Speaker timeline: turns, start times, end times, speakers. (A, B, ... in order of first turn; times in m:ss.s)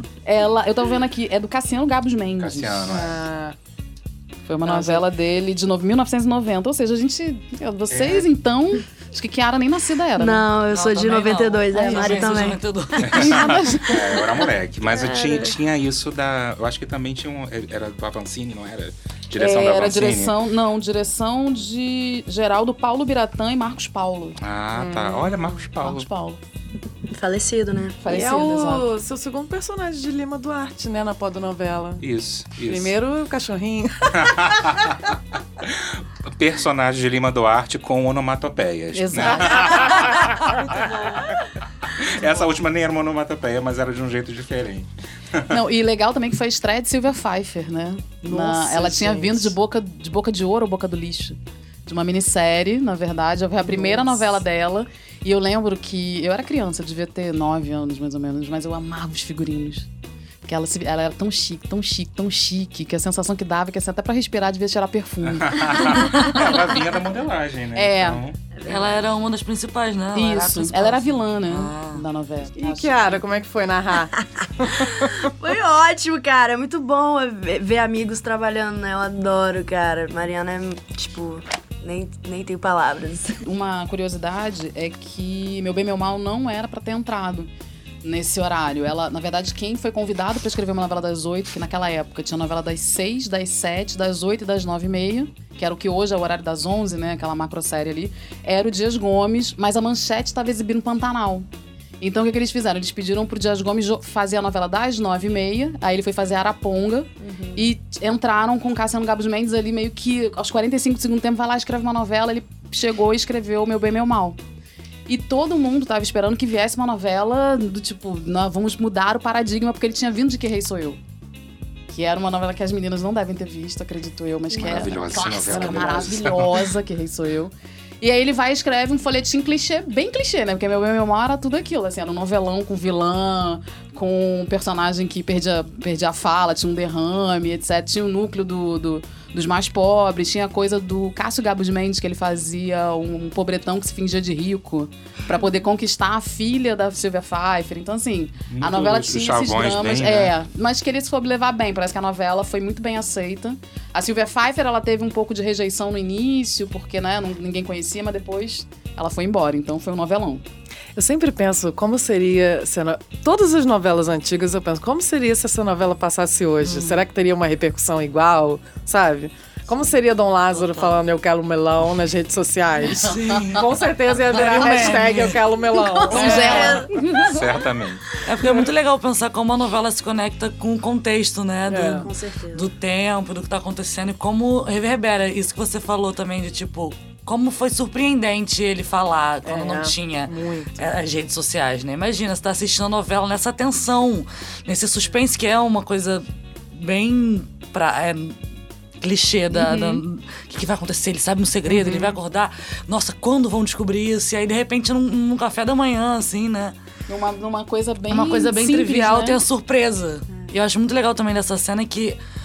0:00.2-0:03.0 A
0:02.4-0:03.2 B
0:02.9-0:03.5 C
0:04.5-0:10.5 A
0:04.6-0:05.0 C
0:07.9-0:08.3 B
0:10.2-0:12.6 D
0:10.6-0:13.2 E
0:11.7-0:12.3 A
0:13.0-0:20.4 B
0:13.1-0:14.3 A
0:14.9-0:15.5 D
0:19.4-0:24.4 A
0:24.4-0:26.1 B
0:24.7-0:25.6 C
0:25.8-0:26.4 A
0:27.1-0:28.0 D
0:28.0-0:28.9 A
0:28.1-0:32.0 C
0:32.0-0:33.0 B
0:32.6-0:34.8 C
0:34.2-0:34.9 B
0:35.6-0:40.8 B
0:39.0-0:39.3 A
0:39.1-0:40.6 C
0:40.8-0:41.1 E
0:42.0-0:45.6 B
0:45.5-0:59.9 A
0:48.3-0:49.3 C
0:53.6-0:54.2 C
1:00.4-1:06.5 A
1:05.4-1:08.4 B
1:07.7-1:08.2 A
1:08.6-1:12.0 E
1:10.1-1:13.2 A
1:12.6-1:14.1 C
1:15.0-1:23.4 D
1:23.4-1:27.5 A
1:28.0-1:41.5 A
1:42.0-1:54.4 A
1:55.1-2:01.0 A
2:01.9-2:40.4 A
2:04.5-2:06.7 B
2:28.5-2:30.3 B
2:41.0-2:56.8 C
2:46.6-2:46.9 E
2:50.6-2:50.9 E
2:52.9-2:56.8 E
2:56.1-2:57.3 A
2:56.2-2:57.2 D
2:57.2-2:58.0 B
2:58.2-3:18.4 E
3:01.7-3:02.0 C
3:02.1-3:02.7 D
3:09.5-3:09.9 C
3:19.0-3:26.7 E
3:19.5-3:20.0 A
3:27.1-3:29.4 A
3:28.1-3:32.2 E